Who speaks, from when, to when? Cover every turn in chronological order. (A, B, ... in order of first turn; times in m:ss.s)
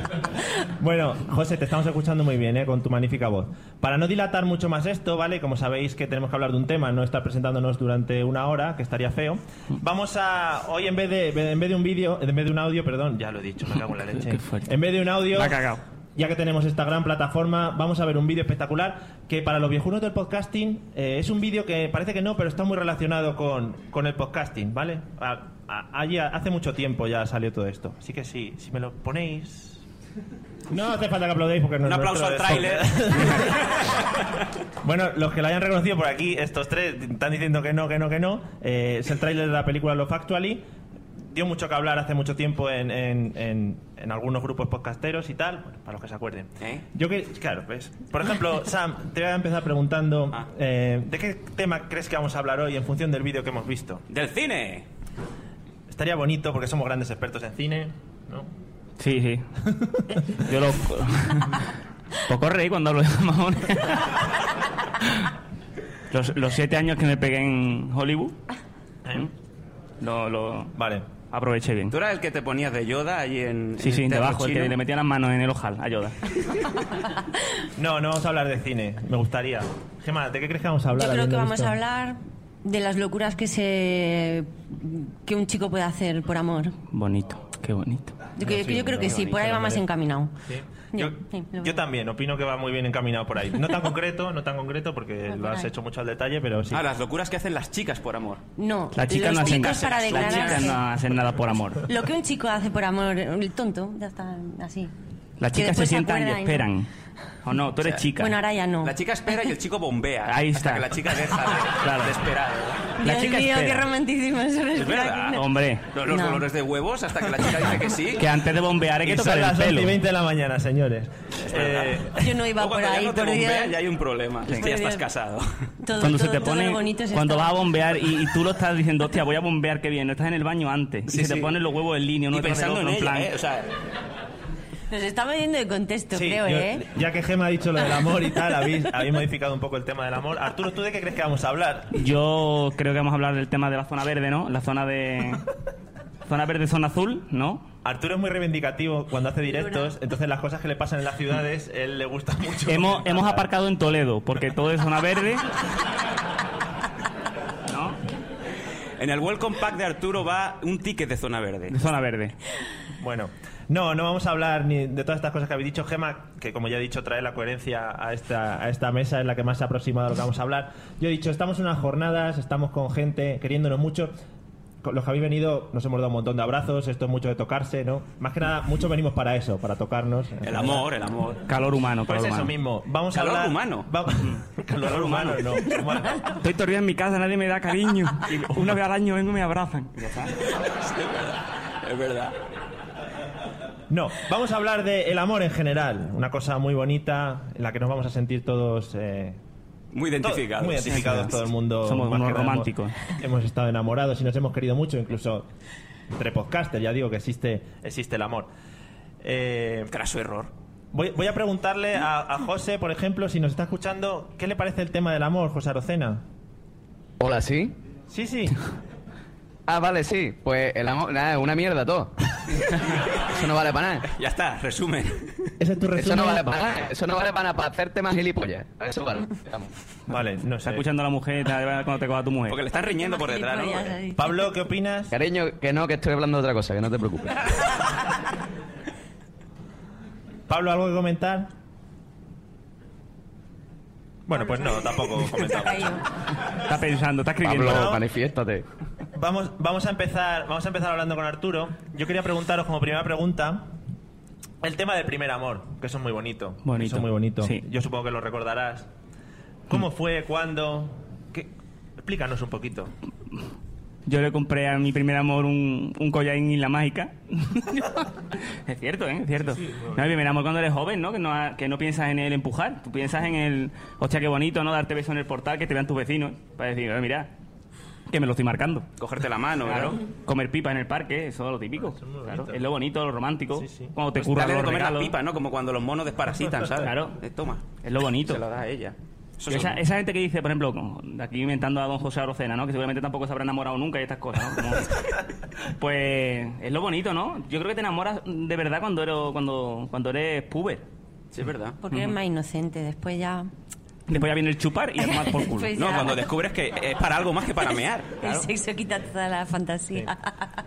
0:00.8-0:29.8 A
0:13.8-0:14.7 B
0:15.3-0:15.8 B
0:30.7-0:34.0 A
0:31.8-0:34.0 C
0:34.8-0:40.6 A
0:41.3-0:54.0 A
0:54.1-0:54.8 C
0:55.9-0:58.5 A
0:59.0-0:59.4 B
1:00.3-1:01.7 B
1:02.3-1:04.2 B
1:06.1-1:08.4 B
1:10.0-1:10.7 B
1:10.8-1:11.1 A
1:11.3-1:11.9 B
1:11.9-1:14.8 C
1:13.8-1:16.2 B
1:17.8-1:21.8 A
1:20.9-1:26.8 D
1:26.9-1:28.3 B
1:28.4-1:30.3 D
1:28.4-1:29.8 A
1:29.0-1:29.3 C
1:30.4-1:36.8 A
1:30.9-1:31.8 D
1:35.3-1:35.7 D
1:36.7-1:38.4 C
1:38.6-1:40.8 D
1:38.9-1:41.8 B
1:39.3-1:40.8 C
1:41.9-1:44.9 D
1:45.4-1:46.9 B
1:45.5-1:46.7 D
1:47.4-1:48.4 B
1:48.2-1:48.9 D
1:48.8-1:52.9 C
1:50.3-1:50.9 B
1:51.8-1:52.2 B
1:53.0-1:55.4 D
1:53.0-1:53.8 B
1:54.8-1:58.3 C
1:55.3-1:55.9 B
1:56.1-1:56.4 D
1:58.2-1:59.9 B
1:59.0-2:02.3 A
2:01.5-2:02.0 C
2:02.2-2:03.8 D
2:02.6-2:05.4 C
2:04.5-2:05.0 D
2:05.8-2:07.5 D
2:06.0-2:13.3 B
2:11.1-2:11.6 C
2:12.3-2:13.7 C
2:14.9-2:16.8 D
2:16.1-2:21.9 A
2:21.9-2:25.4 B
2:26.3-2:27.7 B
2:27.8-2:33.5 A
2:32.7-2:35.4 B
2:37.7-2:38.0 B
2:39.0-2:41.8 C
2:41.7-2:42.3 B
2:43.0-2:54.1 A
2:54.8-3:00.8 A
3:00.4-3:01.4 C
3:01.5-3:02.5 B
3:02.1-3:06.3 A
3:03.1-3:03.9 C
3:04.3-3:05.8 B
3:06.3-3:10.4 B
3:10.4-3:12.4 C
3:13.9-3:19.4 A
3:19.9-3:21.4 C
3:20.2-3:25.5 A
3:21.8-3:23.0 B
3:26.1-3:28.5 A
3:29.2-3:29.9 A
3:29.9-3:30.5 C
3:30.9-3:36.2 A
3:37.2-3:37.7 E
3:38.1-3:38.6 A
3:39.7-3:42.1 E
3:43.2-3:44.1 E
3:44.1-3:45.5 C
3:45.6-3:46.4 A
3:46.0-3:49.7 E
3:50.1-3:50.8 A
3:50.6-3:52.6 B
3:52.5-3:54.0 C
3:52.8-3:54.4 D
3:54.2-3:55.1 A
3:55.1-3:57.4 E
4:00.5-4:01.5 A
4:04.3-4:05.9 A
4:04.7-4:06.0 D
4:06.7-4:08.0 B
4:07.4-4:08.6 E
4:07.6-4:08.0 A
4:09.2-4:13.7 A
4:14.6-4:18.9 A
4:16.6-4:17.6 B
4:19.7-4:22.9 A
4:24.1-4:28.1 B
4:28.7-4:37.3 B
4:29.5-4:30.1 A
4:38.1-4:38.9 B
4:39.0-4:40.0 C
4:39.6-4:45.1 B
4:41.8-4:42.6 A
4:43.6-4:43.9 A
4:44.2-4:49.8 C
4:46.8-4:47.2 B
4:47.8-4:48.4 B
4:49.5-4:54.9 B
4:55.8-5:00.8 B
5:01.3-5:01.8 C
5:01.8-5:03.5 D
5:01.9-5:02.2 B
5:04.1-5:05.8 B
5:05.0-5:06.2 D
5:05.8-5:08.4 C
5:08.2-5:10.4 D